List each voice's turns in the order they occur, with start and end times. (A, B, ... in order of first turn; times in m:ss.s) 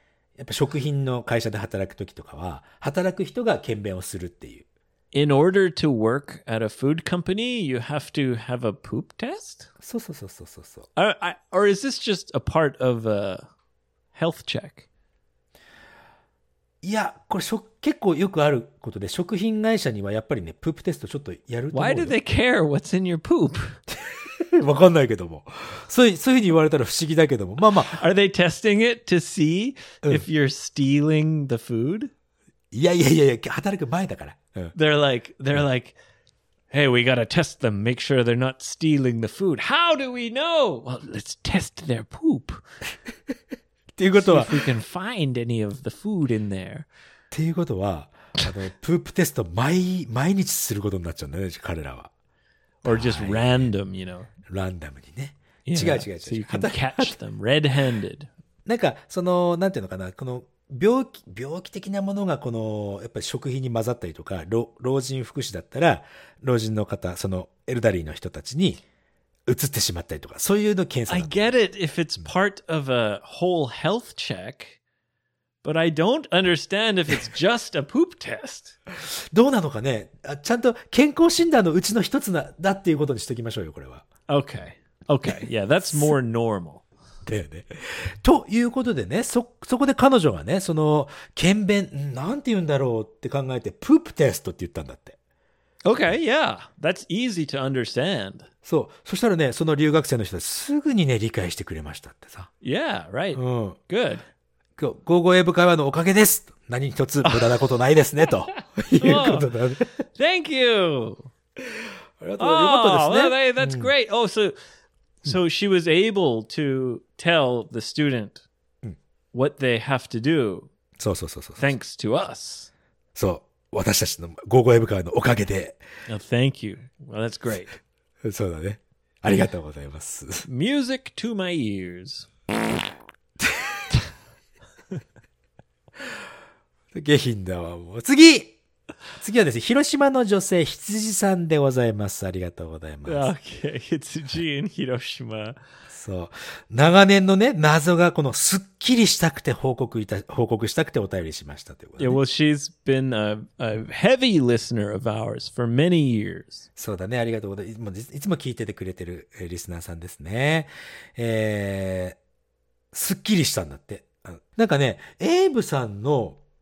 0:00.4-0:04.6 A
0:05.1-0:09.7 B
0:09.8-0:10.9 A
0:11.0-0:13.5 B
0:14.1-0:14.9 B
0:16.8-0:22.1 A
0:21.7-0:23.8 B
0:23.9-0:28.0 A
0:27.8-0:32.1 B
0:32.7-0:34.7 A
0:34.7-0:36.0 B
0:36.7-0:42.6 B
0:44.0-0:44.7 A
0:44.2-0:46.9 B
0:47.3-0:52.1 A
0:52.8-0:53.7 A
0:52.8-0:54.3 B
0:54.4-0:57.2 A
0:55.6-0:58.3 B
0:58.6-1:08.8 A
1:09.5-1:11.5 A
1:11.1-1:14.8 B
1:15.6-1:18.8 B
1:18.9-1:24.1 A
1:24.3-1:26.8 B
1:27.2-1:35.2 A
1:35.8-1:38.5 B
1:38.6-1:42.5 A
1:42.6-1:44.2 B
1:43.3-1:43.8 A
1:44.8-1:49.9 A
1:49.0-1:49.5 B
1:50.1-1:51.3 B
1:51.6-1:53.9 A
1:52.4-1:54.6 B
1:55.2-1:58.4 B
1:59.3-2:00.7 B
2:01.0-2:01.7 A
2:01.6-2:02.7 B
2:03.2-2:05.8 A
2:06.1-2:07.8 B
2:08.2-2:10.5 A
2:10.4-2:12.3 B
2:13.4-2:13.8 A
2:16.9-2:18.6 A
2:19.2-2:23.3 A
2:23.1-2:25.6 B
2:25.9-2:32.2 A
2:32.0-2:36.6 B
2:36.8-2:42.2 A
2:42.9-2:46.4 A